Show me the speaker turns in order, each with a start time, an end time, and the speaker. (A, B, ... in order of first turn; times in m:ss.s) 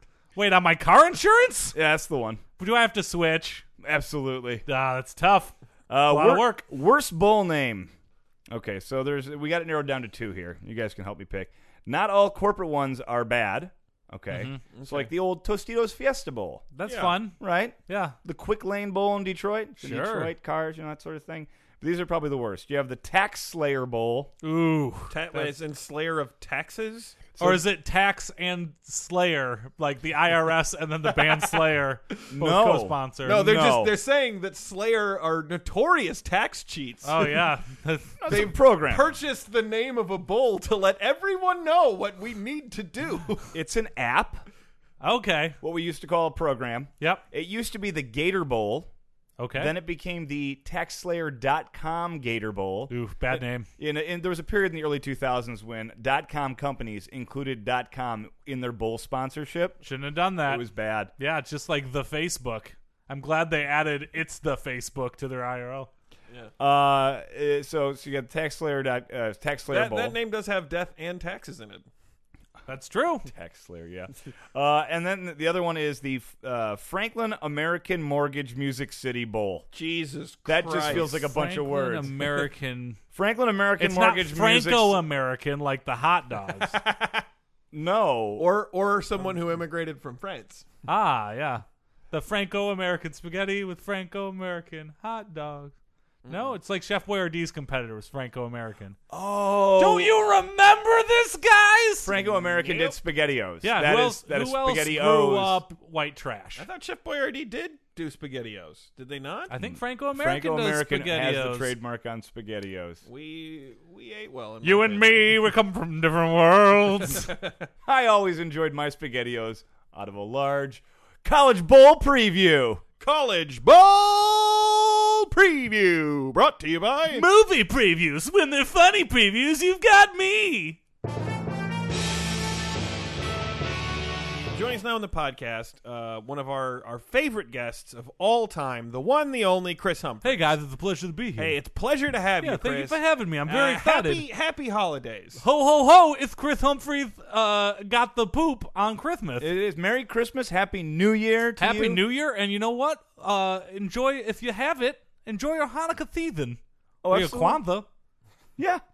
0:00.4-0:01.8 A
0:01.7-0:02.4 B
0:02.6-0:03.6 A
0:03.8-0:04.6 B
0:04.6-0:06.6 A
0:05.9-0:07.9 B
0:08.5-0:16.7 B
0:14.3-0:14.6 A
0:14.7-0:15.1 C
0:16.7-0:18.1 A
0:16.9-0:17.2 C
0:17.4-0:24.3 B
0:19.8-0:20.3 A
0:24.4-0:25.5 A
0:25.1-0:27.4 C
0:27.4-0:27.6 B
0:27.4-0:33.4 A
0:31.3-0:31.6 C
0:32.3-0:33.9 B
0:33.2-0:37.5 C
0:37.0-0:38.2 A
0:38.2-0:39.1 B
0:38.3-0:43.5 C
0:43.5-0:44.4 B
0:45.0-0:45.6 A
0:45.6-0:48.9 B
0:49.4-0:49.7 A
0:49.5-0:52.9 B
0:52.9-0:53.7 A
0:53.8-0:59.8 B
0:59.8-1:00.6 A
1:00.4-1:01.1 B
1:01.2-1:05.9 A
1:06.6-1:10.2 B
1:09.7-1:11.9 C
1:12.7-1:13.3 A
1:13.2-1:19.7 B
1:19.7-1:21.1 C
1:20.4-1:22.3 B
1:20.8-1:23.0 A
1:23.1-1:25.0 B
1:23.8-1:26.8 A
1:26.6-1:27.2 C
1:27.7-1:28.5 B
1:28.4-1:30.7 C
1:30.8-1:35.7 A
1:36.2-1:36.5 C
1:36.3-1:39.0 A
1:39.1-1:40.1 B
1:39.8-1:42.1 A
1:42.0-1:45.6 B
1:42.1-1:43.0 C
1:43.6-1:46.6 A
1:46.6-1:49.5 C
1:49.5-1:51.7 A
1:49.6-1:53.0 B
1:53.0-1:55.4 C
1:54.6-1:57.3 A
1:57.0-1:57.7 C
1:57.8-2:02.8 B
2:03.0-2:07.3 C
2:07.1-2:10.8 A
2:14.5-2:20.5 C
2:20.2-2:21.6 A
2:21.4-2:25.4 C
2:22.4-2:24.2 A
2:25.4-2:29.5 A
2:29.4-2:32.0 B
2:31.6-2:37.8 A
2:37.0-2:37.6 B
2:38.6-2:38.8 B